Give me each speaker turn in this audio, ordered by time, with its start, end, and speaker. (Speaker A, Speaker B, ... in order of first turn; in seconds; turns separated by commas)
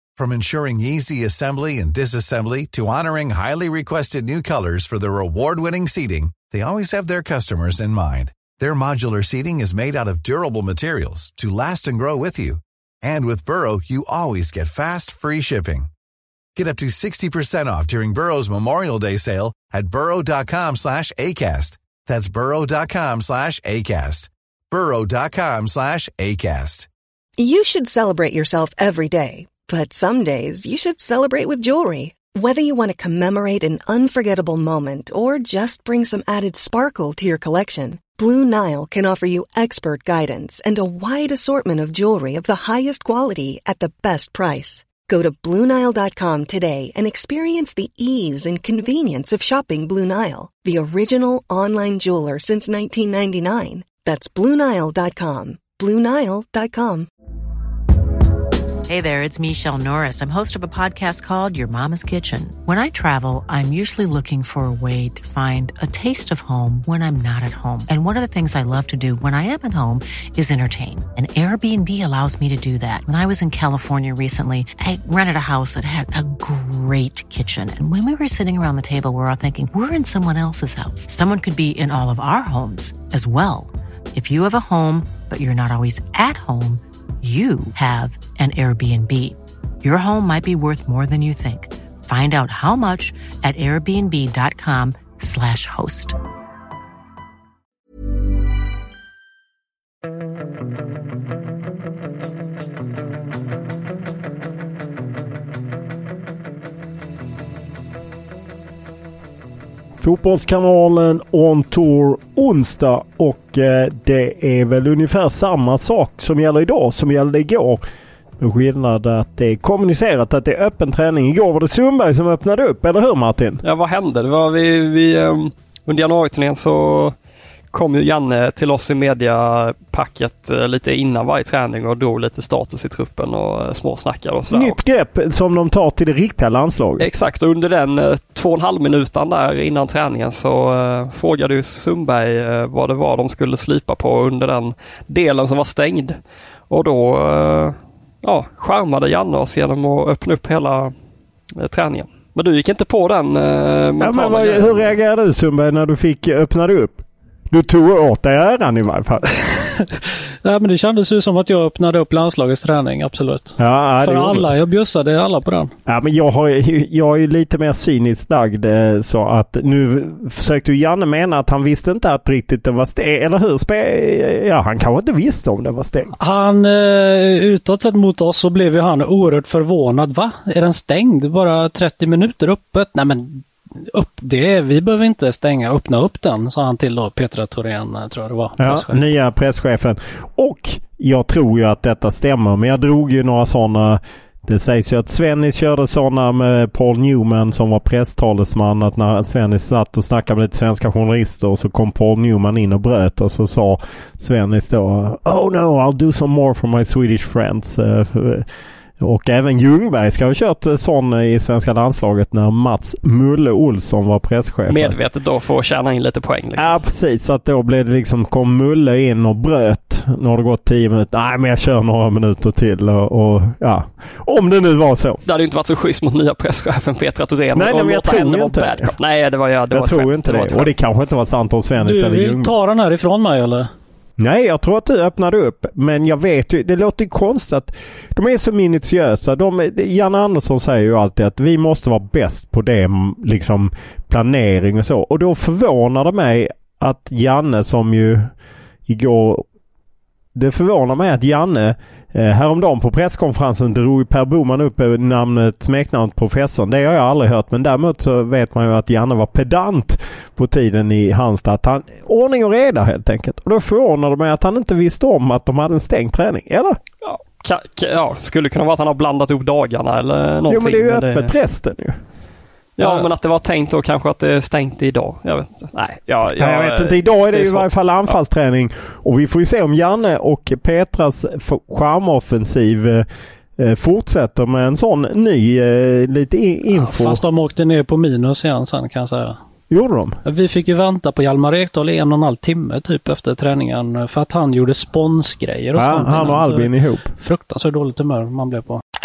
Speaker A: 0.2-15.9, Speaker A: 16.6-26.9, Speaker B: 27.4-57.1, Speaker C: 58.9-96.2, Speaker D: 110.0-117.8, Speaker D: 118.4-123.6, Speaker E: 123.6-127.2, Speaker E: 127.7-134.8, Speaker D: 134.5-137.1, Speaker E: 137.0-146.2, Speaker E: 146.7-150.9, Speaker E: 151.6-154.9, Speaker D: 154.0-159.6, Speaker F: 160.4-165.7, Speaker D: 163.6-164.5, Speaker D: 165.9-176.1, Speaker F: 176.2-189.0, Speaker D: 188.6-208.5, Speaker D: 209.0-214.9, Speaker E: 214.7-216.7, Speaker D: 216.6-225.2, Speaker E: 225.3-230.7, Speaker D: 227.6-228.9, Speaker D: 229.7-232.5, Speaker F: 231.8-233.7, Speaker D: 234.2-248.3, Speaker D: 248.9-249.4, Speaker D: 250.3-266.8, Speaker E: 267.0-271.3, Speaker D: 270.5-272.0, Speaker E: 272.8-278.1, Speaker D: 272.8-273.1, Speaker D: 276.4-283.1, Speaker D: 283.6-287.2, Speaker F: 286.7-289.4, Speaker D: 289.7-290.2, Speaker F: 290.2-298.8, Speaker D: 295.8-297.1